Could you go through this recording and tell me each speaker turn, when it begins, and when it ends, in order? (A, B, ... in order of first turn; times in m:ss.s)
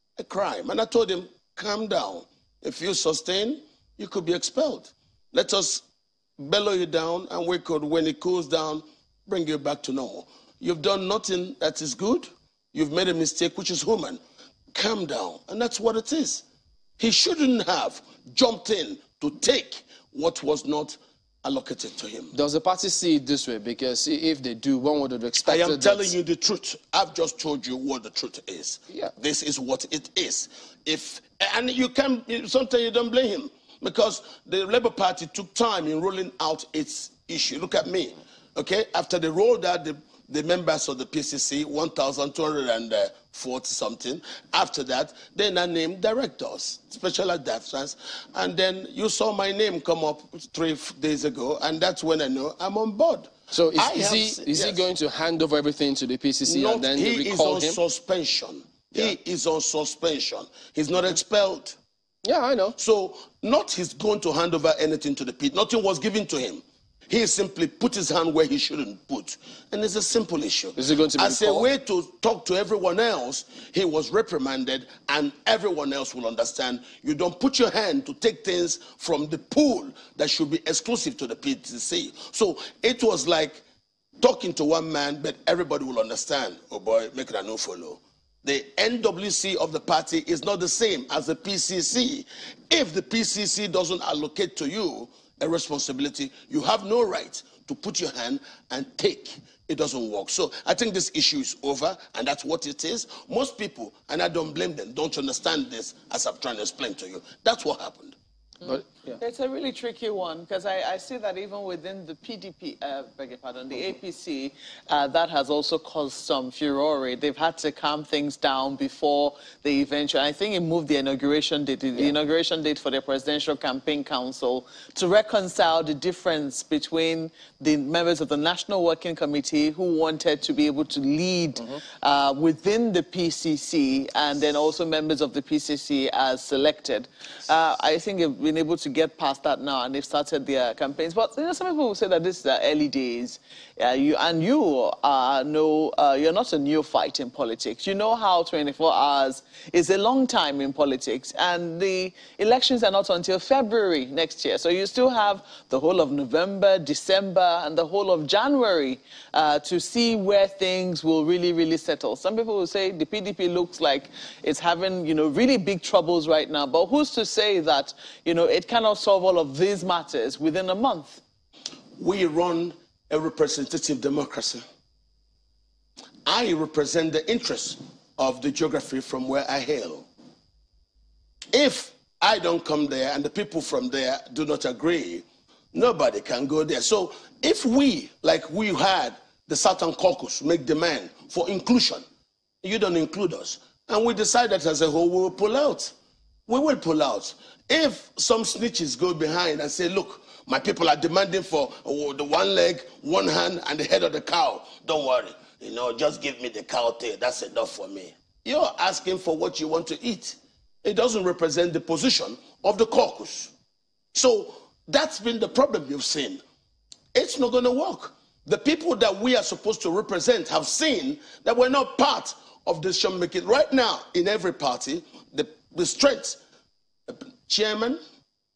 0:00.2-0:05.8 A
0:06.4-0:14.2 A
0:14.7-0:16.4 A
0:17.0-0:22.3 A
0:22.3-0:26.1 B
0:25.4-0:54.9 A
0:53.5-0:57.8 B
0:56.4-1:01.8 A
1:02.2-1:02.8 B
1:02.8-1:23.6 A
1:10.8-1:11.7 B
1:24.2-1:48.2 A
1:48.6-1:49.2 B
1:49.2-2:51.2 C
2:52.0-2:54.6 A
2:56.2-3:00.1 A
3:01.5-3:12.0 A
3:12.6-3:15.9 A
3:16.5-3:33.5 A
3:34.1-3:36.4 A
3:37.1-3:46.4 A
3:47.1-3:48.0 A